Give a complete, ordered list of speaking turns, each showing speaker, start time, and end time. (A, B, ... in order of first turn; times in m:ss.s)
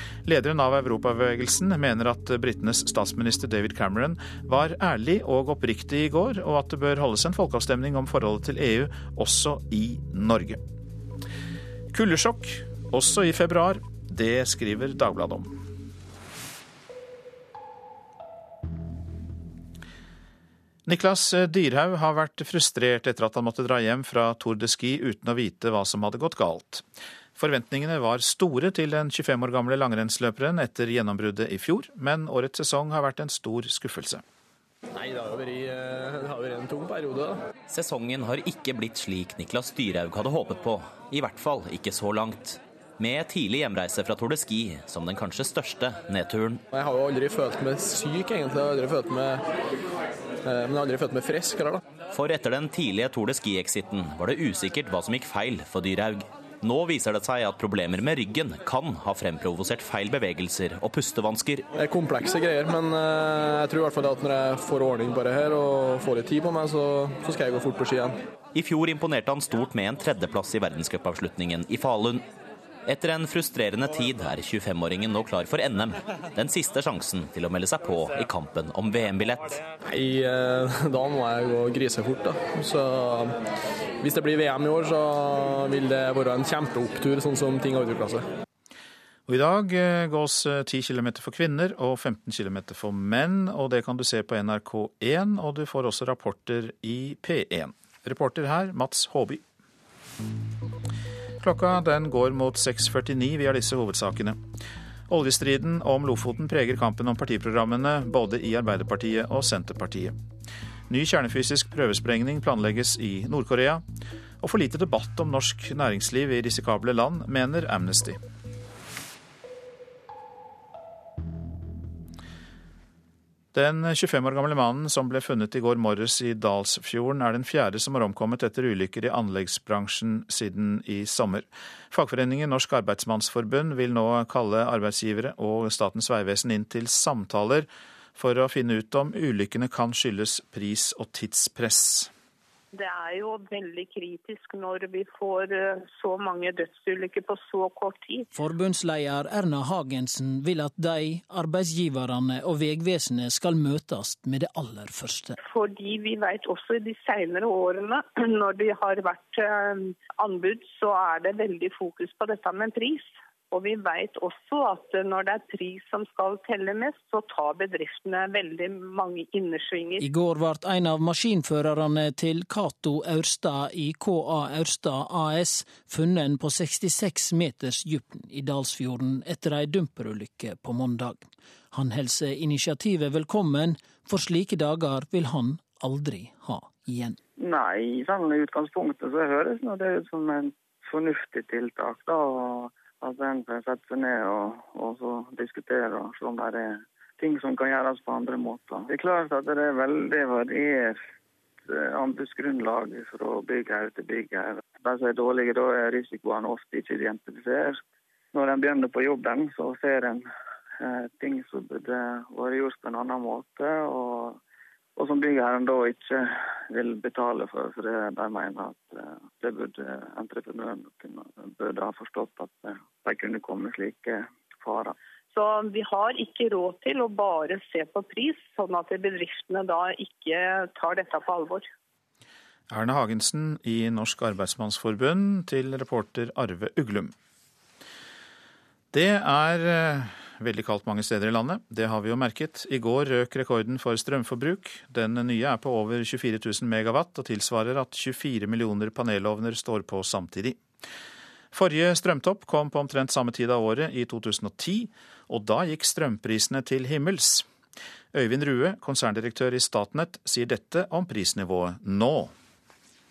0:00.2-0:10.6 A
0:11.9-0:15.6 A
0:20.8-0:26.8 A
0:27.4-0:34.2 A
0:35.0-0:37.3 B
0:37.7-0:46.6 C
0:46.7-0:49.3 B
0:50.4-0:51.8 B
0:52.1-1:01.7 C
1:01.8-1:08.1 B
1:08.5-1:12.2 C
1:12.8-1:19.6 C
1:19.9-1:23.2 B
1:24.0-1:25.0 B
1:25.7-1:28.2 B
1:29.3-1:39.4 A
1:41.4-1:44.4 A
1:45.1-1:50.1 A
1:50.9-1:53.8 A
1:54.4-1:58.2 A
2:03.5-2:22.1 A
2:22.7-2:28.2 D
2:28.4-2:35.3 E
2:35.4-2:50.0 D
2:50.0-3:01.1 E
3:01.8-3:07.1 E
3:07.4-3:21.0 F
3:21.7-3:27.8 F
3:28.3-3:30.2 F
3:30.8-3:34.4 F
3:35.0-3:44.9 F
3:45.3-3:51.7 D
3:52.7-3:57.1 A
3:58.9-4:10.6 A
4:11.5-4:17.4 A
4:18.1-4:22.3 A